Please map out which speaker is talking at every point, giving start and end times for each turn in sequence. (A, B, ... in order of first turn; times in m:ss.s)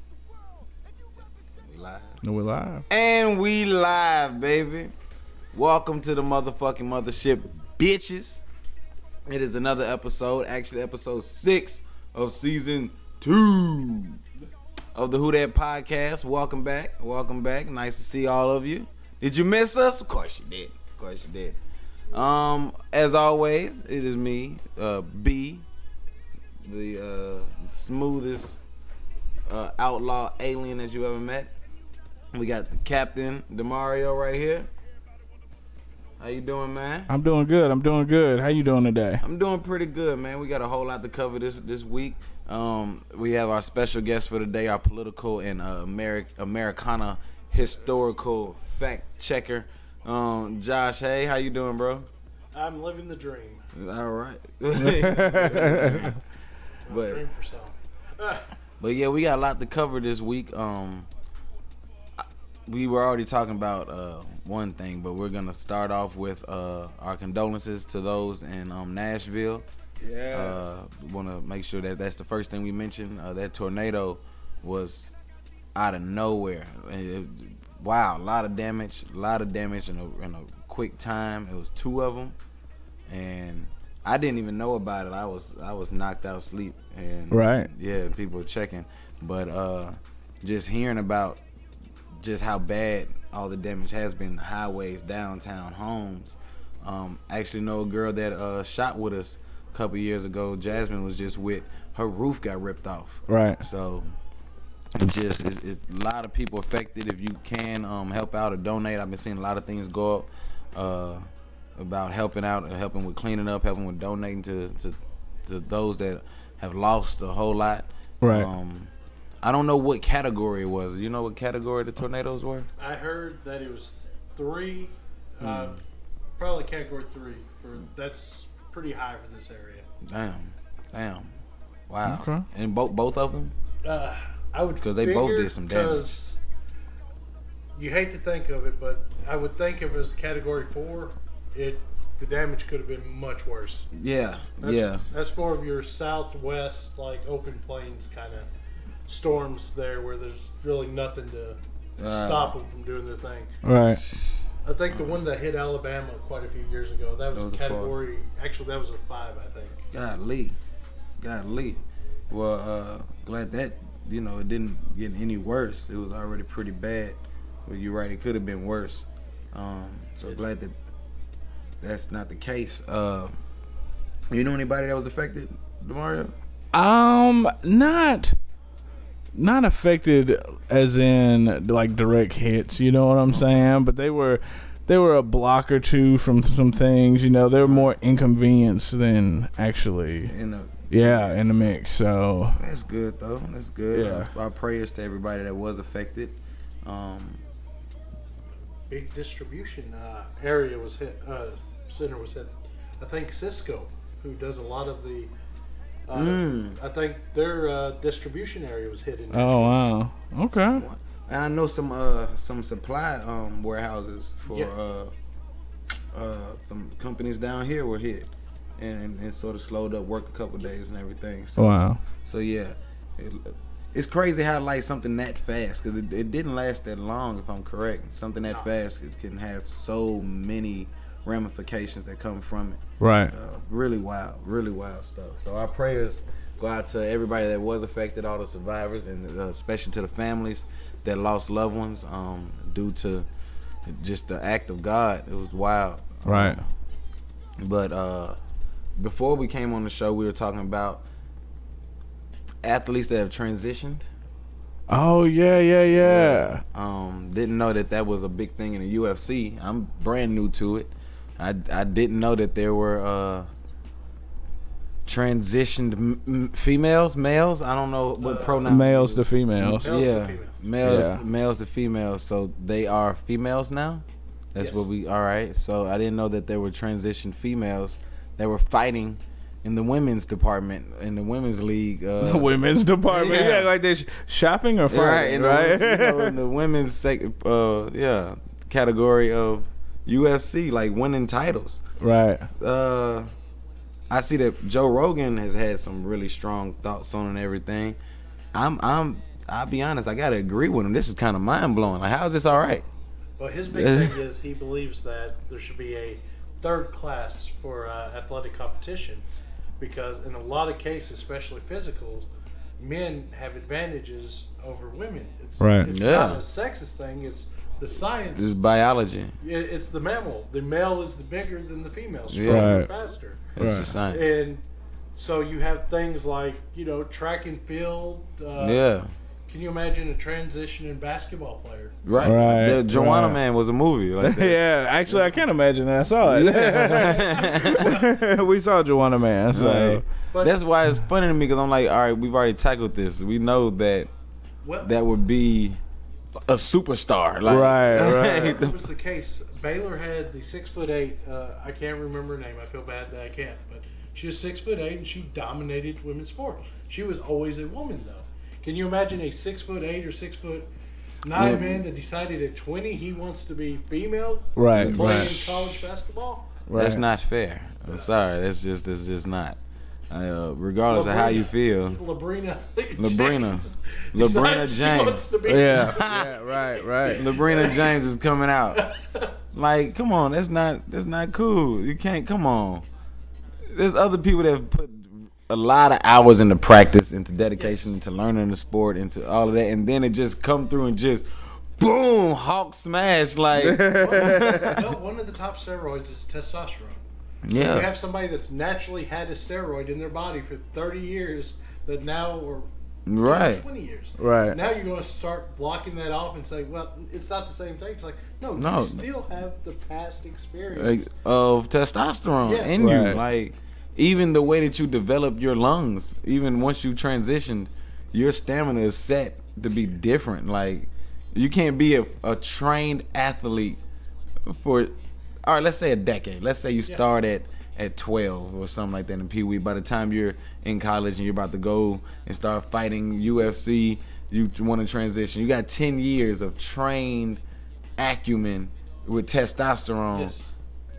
0:01.6-0:02.2 A
0:02.2-0:02.8 B
0:02.9-0:04.9 A
0:05.5-0:08.4 A
0:09.3-0:14.2 A
0:15.0-0:21.6 A
0:22.1-0:25.6 A
0:26.6-0:28.6 A
0:29.5-0:31.5 A
0:32.3-0:34.7 A
0:36.2-0:37.1 A
0:37.1-0:39.2 B
0:39.2-0:52.1 A
0:52.5-0:53.6 C
0:53.7-0:56.2 A
0:54.8-0:56.2 B
0:56.9-0:58.5 C
0:56.9-0:57.2 A
0:58.8-1:01.1 A
1:02.7-1:09.7 A
1:10.0-1:10.6 B
1:10.3-1:15.1 A
1:15.8-1:22.4 A
1:23.1-1:31.4 A
1:27.3-1:27.7 B
1:32.2-1:44.0 A
1:43.3-1:43.6 B
1:45.0-1:51.2 A
1:51.8-1:58.9 A
1:58.2-1:58.5 B
1:59.4-2:02.7 A
2:02.8-2:05.8 C
2:05.4-2:05.8 A
2:06.4-2:09.9 C
2:10.0-2:11.3 A
2:11.9-2:13.5 A
2:12.0-2:12.4 B
2:13.8-2:16.4 C
2:14.8-2:16.2 A
2:17.8-2:23.9 C
2:23.9-2:25.0 A
2:24.6-2:28.5 C
2:29.1-2:33.5 C
2:32.0-2:32.5 A
2:33.6-2:34.0 B
2:34.6-2:39.9 C
2:37.3-2:38.0 A
2:39.9-2:40.6 A
2:41.2-2:50.8 A
2:51.8-2:53.3 A
2:54.3-2:56.3 A
2:56.7-2:58.4 B
2:59.4-3:10.3 B
3:03.3-3:03.6 A
3:07.6-3:08.0 A
3:10.3-3:11.4 A
3:10.9-3:12.6 B
3:12.6-3:17.4 A
3:13.9-3:14.3 B
3:18.9-3:25.3 C
3:26.1-3:29.8 C
3:26.1-3:26.8 A
3:29.3-3:30.8 B
3:30.8-3:35.1 A
3:34.5-3:34.7 C
3:36.1-4:03.3 A
3:41.6-3:42.0 B
3:48.4-3:48.7 C
3:53.0-3:53.3 B
4:03.8-4:06.6 A
4:06.2-4:06.6 B
4:07.6-4:08.4 A
4:09.0-4:11.0 A
4:12.6-4:14.0 A
4:14.9-4:16.6 B
4:16.0-4:23.5 A
4:25.1-4:42.5 A
4:28.2-4:28.7 C
4:28.7-4:29.9 B
4:29.8-4:30.6 C
4:30.8-4:31.2 B
4:34.6-4:34.9 C
4:42.2-4:46.4 B
4:43.0-4:43.7 A
4:44.9-4:51.8 A
4:52.0-4:52.5 B
4:52.6-4:53.3 A
4:54.1-4:58.0 A
4:58.5-5:02.8 A
5:03.4-5:09.2 C
5:03.7-5:04.2 A
5:09.8-5:18.6 C
5:15.6-5:15.9 B
5:15.8-5:16.4 A
5:18.3-5:19.4 A
5:19.4-5:23.5 C
5:22.3-5:22.8 A
5:22.5-5:22.9 B
5:23.6-5:24.4 A
5:23.6-5:23.9 B
5:24.1-5:24.6 C
5:25.2-5:28.9 C
5:28.6-5:29.1 A
5:29.5-5:32.0 C
5:32.0-5:35.4 A
5:32.2-5:33.4 B
5:34.2-5:40.0 B
5:36.2-5:38.0 A
5:36.8-5:38.1 C
5:39.5-5:44.1 A
5:40.3-5:40.6 C
5:44.6-5:45.0 C
5:44.8-5:45.8 A
5:46.5-5:48.8 A
5:47.4-5:48.6 B
5:48.2-6:00.7 C
6:01.2-6:06.6 C
6:01.4-6:01.8 A
6:04.6-6:05.3 B
6:04.7-6:05.8 A
6:06.7-6:07.0 B
6:06.8-6:09.6 A
6:10.1-6:12.0 A
6:10.9-6:18.0 C
6:13.0-6:16.3 A
6:15.5-6:17.3 B
6:17.1-6:18.8 A
6:18.7-6:19.3 C
6:19.5-6:22.9 A
6:23.7-6:34.8 A
6:27.6-6:27.9 C
6:33.5-6:34.8 B
6:33.8-6:42.7 C
6:37.4-6:37.9 A
6:43.1-6:43.6 A
6:43.2-6:51.1 C
6:44.2-6:44.6 B
6:48.6-6:49.1 A
6:50.7-7:03.8 A
6:52.4-6:52.8 C
6:52.8-6:53.2 B
7:04.5-7:17.4 A
7:18.0-7:20.4 A
7:20.1-7:20.5 C